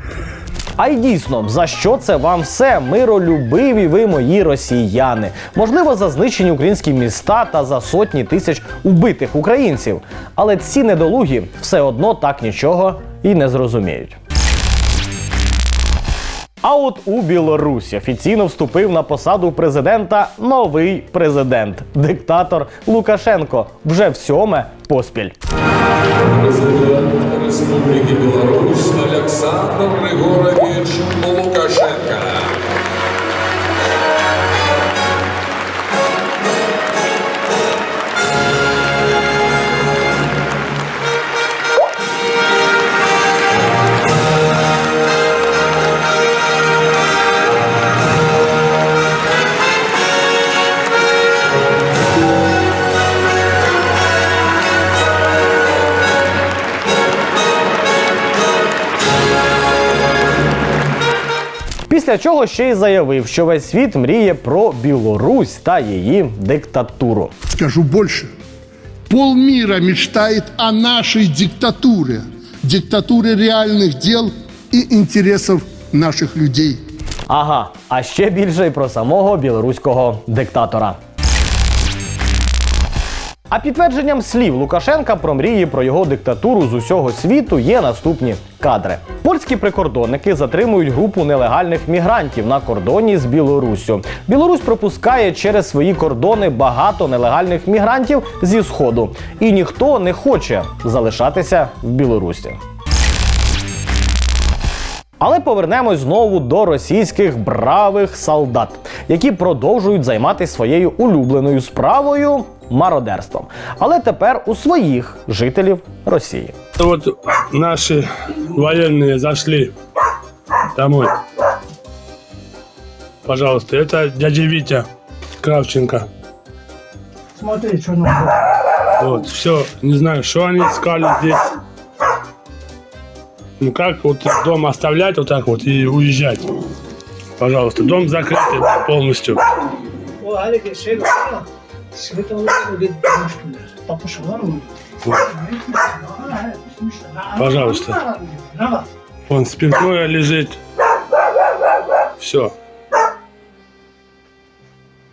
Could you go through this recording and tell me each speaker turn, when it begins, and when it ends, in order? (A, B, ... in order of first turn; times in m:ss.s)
0:00.8-0:14.2 A
0:16.6-0:25.4 A
0:26.3-0:32.5 B
1:01.9-1:07.3 A
1:07.5-1:08.3 C
1:09.1-1:16.8 C
1:17.3-1:21.0 A
1:23.5-1:42.6 A
1:45.2-1:56.6 A
1:56.8-1:59.7 D
2:00.8-2:01.1 D
2:03.3-2:04.9 D
2:05.4-2:06.1 D
2:07.4-2:08.4 E
2:09.0-2:11.4 D
2:13.6-2:16.4 D
2:17.4-2:19.4 D
2:20.2-2:24.7 E
2:25.3-2:28.9 E
2:27.4-2:28.0 D
2:29.3-2:30.6 D
2:32.2-2:32.5 D